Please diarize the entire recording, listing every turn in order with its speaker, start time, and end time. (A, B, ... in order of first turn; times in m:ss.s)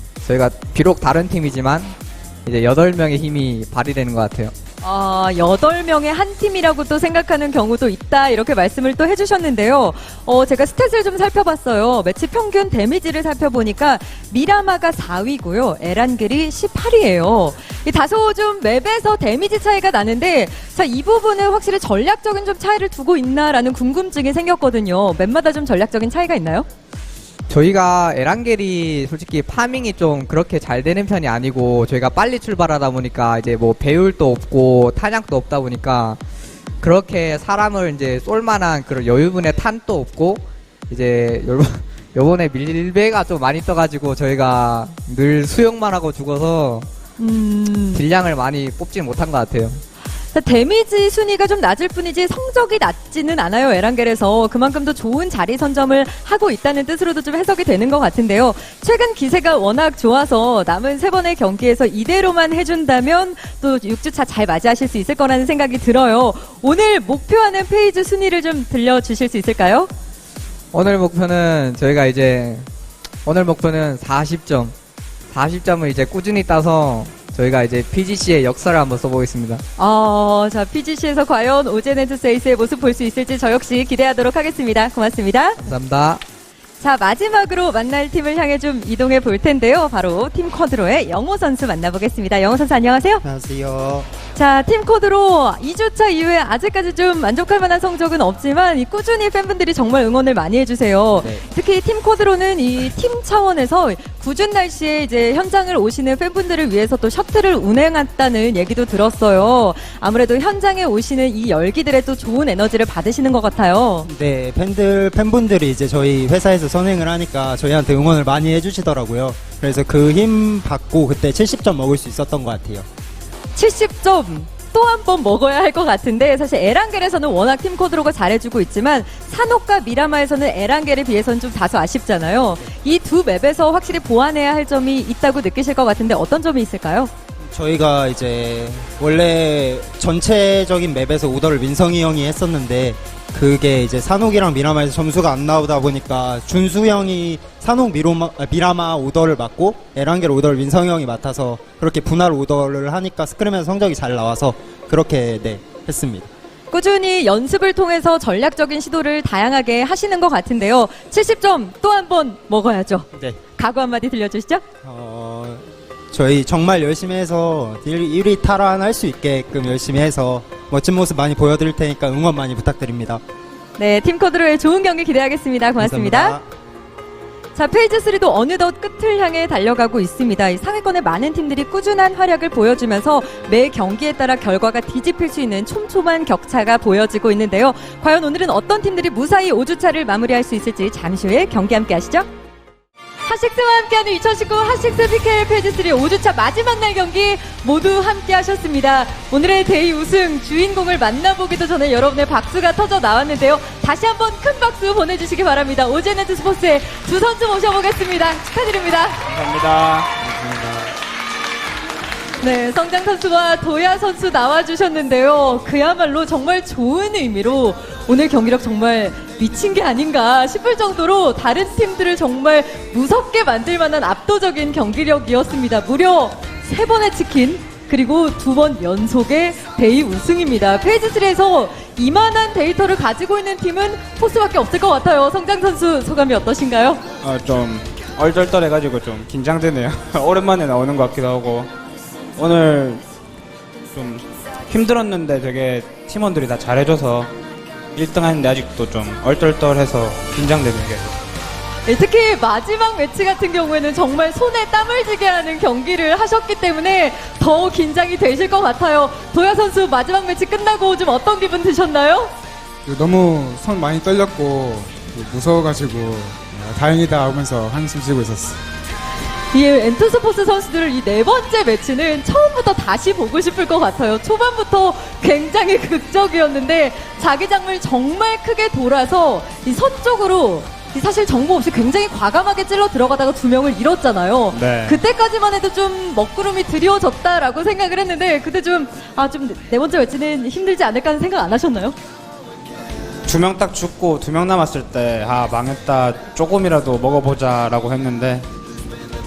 0:00.2-0:04.5 A
0:04.8-0:26.7 B
0:27.5-0:36.2 A
0:36.8-0:46.9 A
0:47.2-0:48.0 B
0:47.9-0:49.8 A
0:50.3-1:09.9 B
1:10.7-1:12.7 A
1:13.2-1:14.8 A
1:15.3-1:19.6 A
1:19.8-1:25.6 B
1:25.6-1:26.2 A
1:26.8-1:33.2 B
1:33.2-1:34.1 C
1:34.4-1:54.1 B
1:41.2-1:41.4 C
1:54.0-2:02.8 C
2:03.6-2:17.1 B
2:17.4-2:36.3 C
2:36.7-2:44.6 B
2:43.1-2:43.4 C
2:44.8-2:53.2 C
2:53.8-2:56.4 B
2:55.8-2:56.5 C
2:57.6-3:12.3 B
3:13.2-3:29.2 B
3:29.3-3:30.9 D
3:32.4-3:57.0 B
3:57.2-4:01.7 D
4:02.4-4:03.0 D
4:04.0-4:07.3 D
4:08.0-4:11.2 D
4:11.9-4:22.3 B
4:22.8-4:28.6 E
4:29.5-4:52.0 B
4:44.5-4:45.0 D
4:53.3-4:58.5 D